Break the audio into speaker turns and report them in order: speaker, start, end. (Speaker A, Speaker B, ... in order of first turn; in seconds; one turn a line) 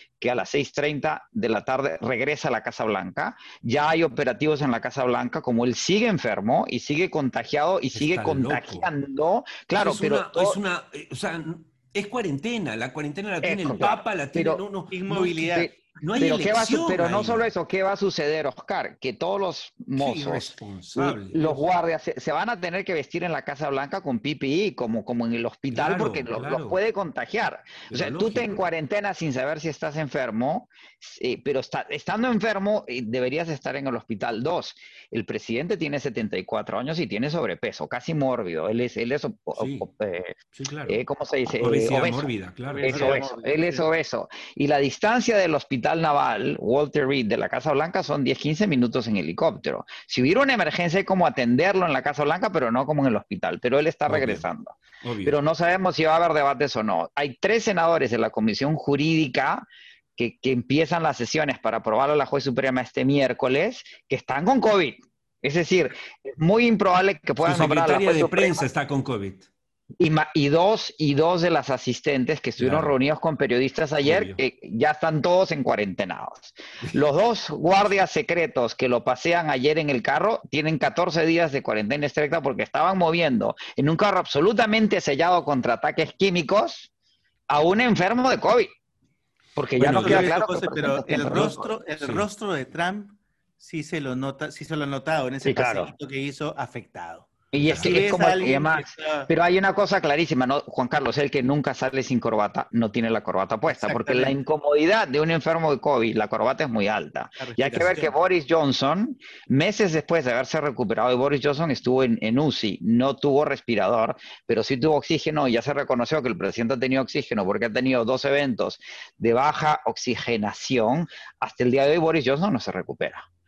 Speaker A: 0.2-10.6
Speaker B: 7.9-8.9
Speaker B: 9.8-15.4
Speaker A: 13.4-14.6
Speaker C: 14.9-15.7
Speaker A: 15.4-59.6
Speaker B: 16.0-17.5
Speaker B: 20.0-21.7
Speaker B: 25.7-26.8
Speaker B: 27.9-28.7
Speaker B: 39.6-39.9
Speaker B: 40.5-41.0
Speaker B: 41.6-43.2
Speaker C: 42.7-43.9
Speaker B: 54.1-54.5
Speaker B: 55.0-55.4
Speaker A: 60.2-68.6
Speaker B: 67.4-69.5
Speaker A: 70.0-86.9
Speaker B: 72.6-73.0
Speaker B: 74.0-74.4
Speaker A: 87.5-88.7
Speaker A: 89.6-91.8
Speaker B: 89.8-90.3
Speaker C: 89.8-99.3
Speaker B: 91.3-92.3
Speaker A: 95.4-95.9
Speaker A: 97.5-123.3
Speaker B: 97.6-98.0
Speaker C: 103.7-104.3
Speaker C: 107.4-108.1